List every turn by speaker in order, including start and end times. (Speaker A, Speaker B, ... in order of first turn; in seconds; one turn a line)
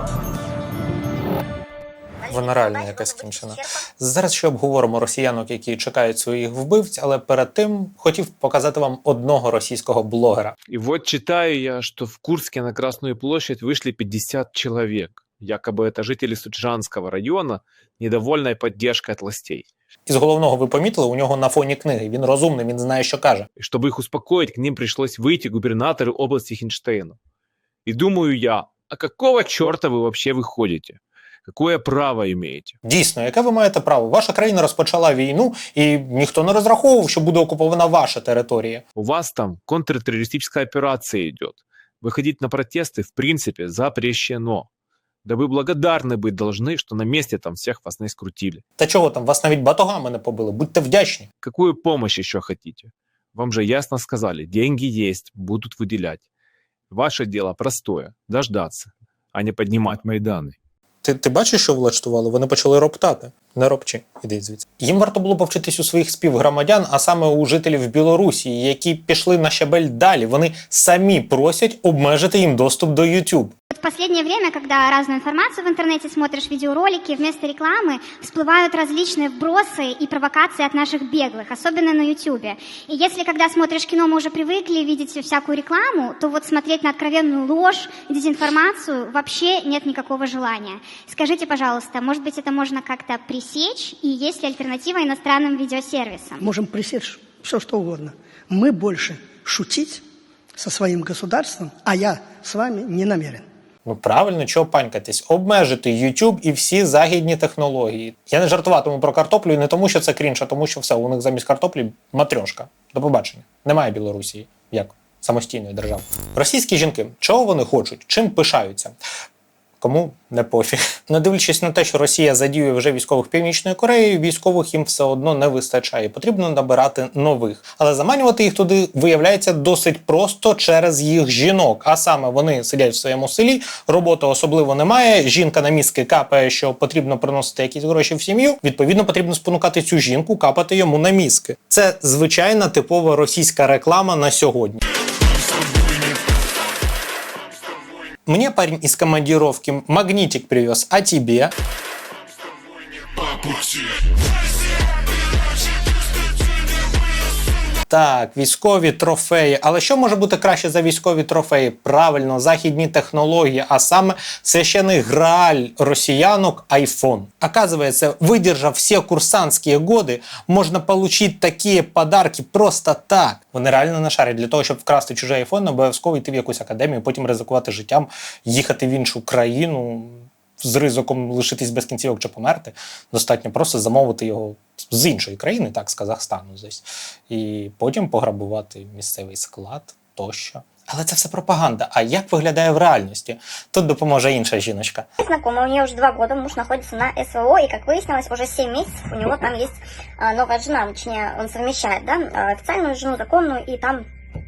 Speaker A: 2.2-3.8
Speaker B: 2.3-10.5
Speaker C: 10.7-19.7
Speaker B: 20.1-23.5
Speaker C: 23.6-27.2
Speaker C: 27.9-32.8
Speaker B: 32.8-38.8
Speaker C: 39.0-44.7
Speaker C: 45.2-48.6
Speaker B: 48.8-51.3
Speaker C: 51.4-56.2
Speaker C: 56.9-60.5
Speaker B: 61.0-73.5
Speaker D: 73.7-96.5
Speaker E: 96.5-100.0
Speaker E: 100.6-103.4
Speaker B: 103.8-119.0
Speaker B: 119.8-144.8
Speaker B: 148.2-151.5
Speaker B: 157.9-195.1
Speaker A: 195.2-204.0